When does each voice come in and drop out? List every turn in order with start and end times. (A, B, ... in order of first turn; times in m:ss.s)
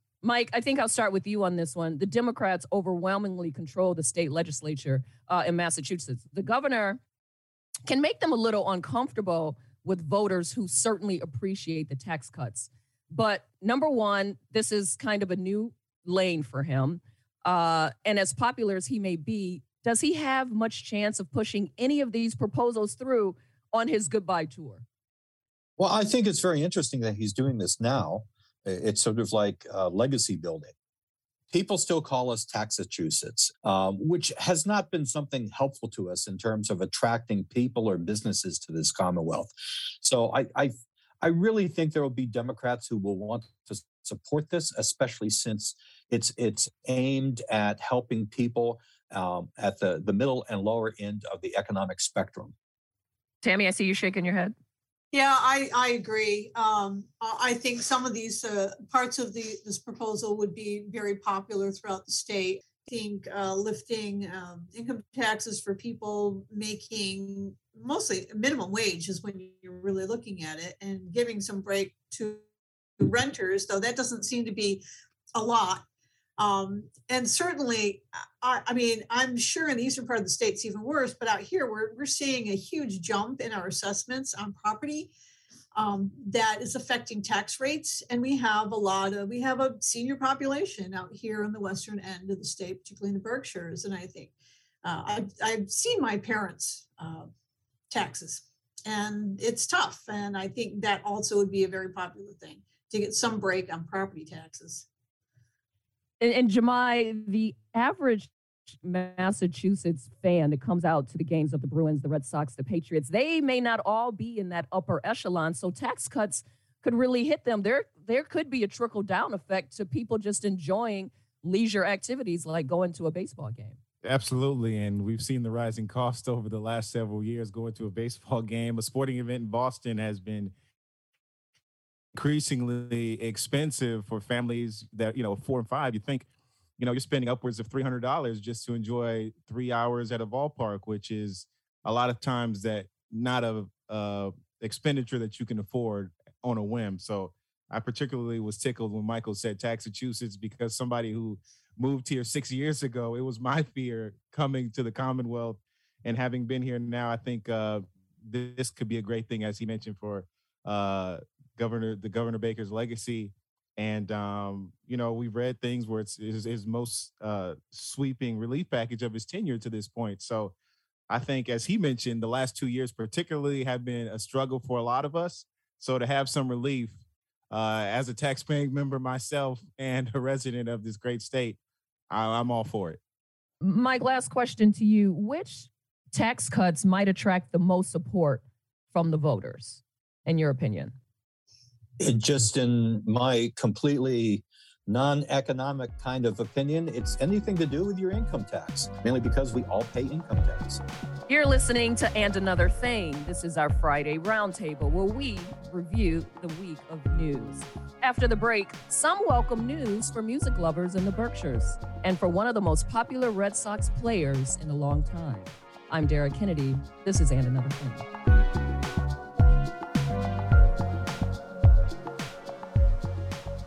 0:00.2-0:07.0 A
0:07.9-0:24.8 A
0:25.8-0:30.7 B
0:31.5-0:52.5 B
0:53.4-0:54.5 A
0:55.1-1:12.4 C
1:13.0-1:14.8 C
1:15.3-1:15.8 C
1:16.4-1:25.1 C
1:25.7-1:34.3 C
1:34.8-1:37.3 C
1:37.9-1:44.8 C
1:46.2-1:48.3 A
1:48.8-2:03.8 A
2:04.0-2:10.5 D
2:12.1-2:16.3 D
2:16.8-2:50.5 D
2:51.1-2:57.0 D
2:57.5-3:01.6 D
3:02.1-3:03.0 D
3:03.6-3:10.9 A
3:12.0-3:20.8 B
3:21.3-3:38.0 A